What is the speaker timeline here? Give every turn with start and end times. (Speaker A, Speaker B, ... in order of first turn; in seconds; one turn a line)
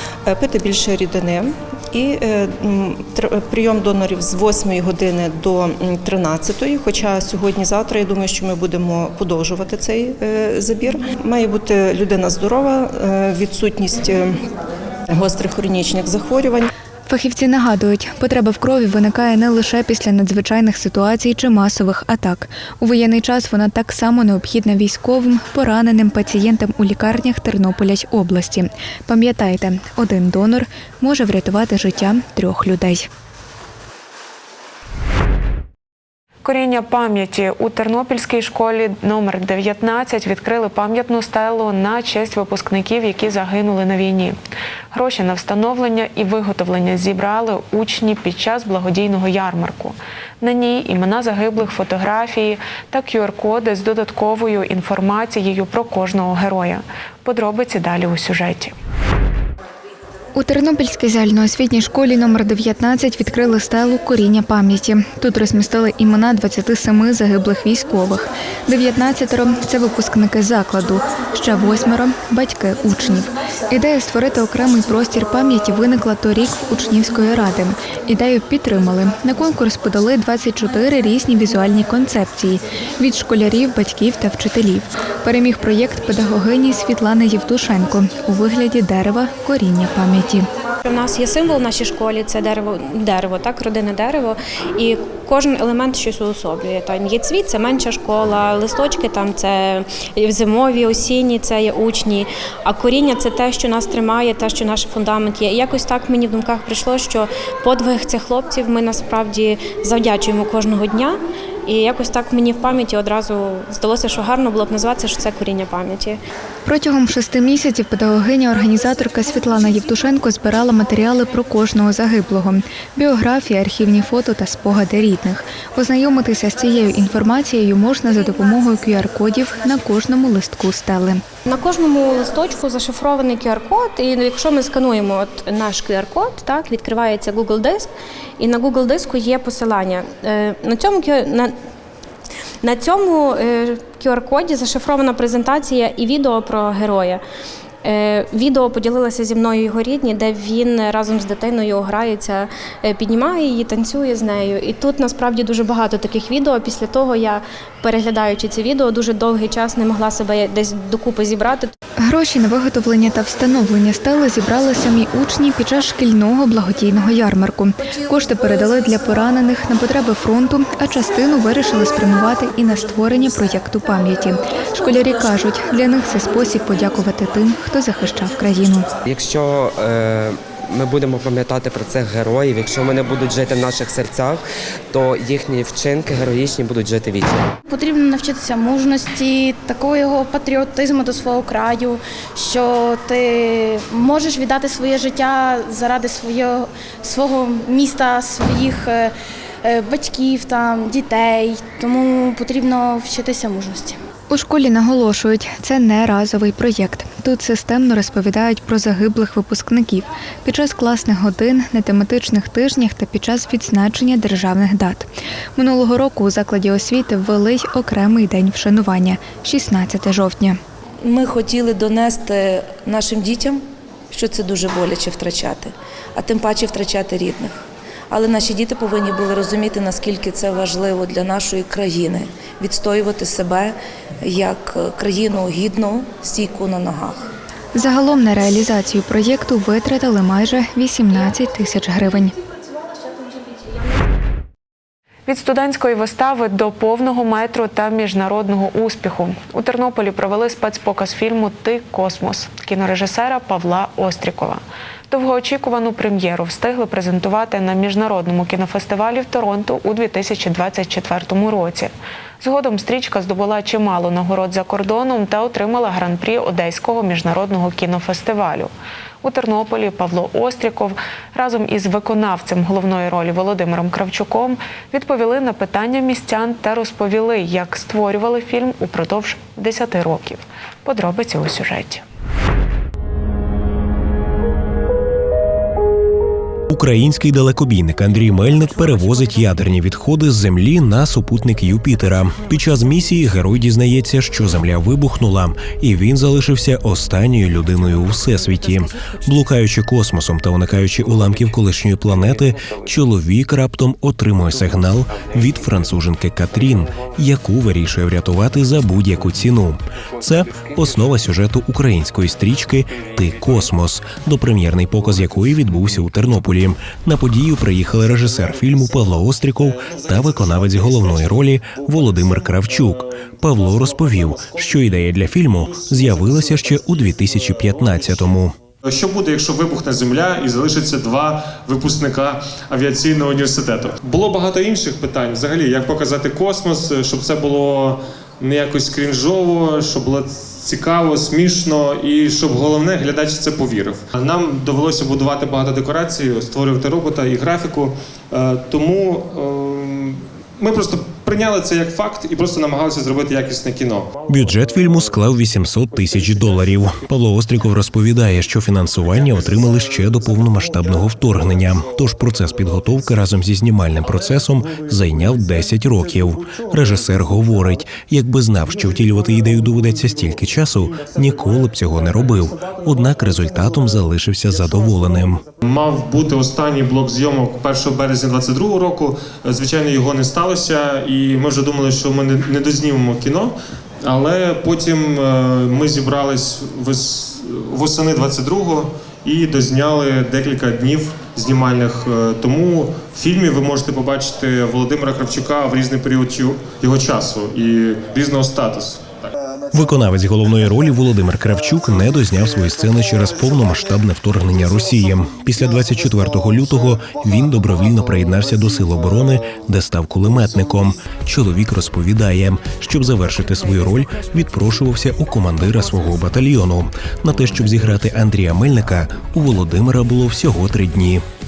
Speaker A: 0.3-14.3
Speaker A: 15.1-16.7
Speaker B: 17.1-33.1
Speaker C: 36.4-44.4
Speaker C: 44.9-58.7
Speaker B: 60.4-90.5
Speaker D: 90.8-116.2
Speaker B: 116.6-131.2
Speaker D: 131.4-141.5
Speaker D: 142.6-147.2
Speaker D: 147.8-161.7
Speaker B: 162.1-178.8
Speaker E: 179.1-187.5
Speaker F: 187.7-199.1
Speaker F: 199.6-203.9
Speaker B: 204.3-220.6
Speaker G: 221.0-227.5
Speaker G: 228.1-237.2
Speaker B: 237.7-242.3
Speaker C: 245.2-268.7
Speaker C: 269.2-282.0
Speaker H: 286.7-328.6
Speaker I: 328.8-354.1
Speaker H: 354.3-375.4
Speaker I: 375.6-399.2
Speaker H: 399.7-421.2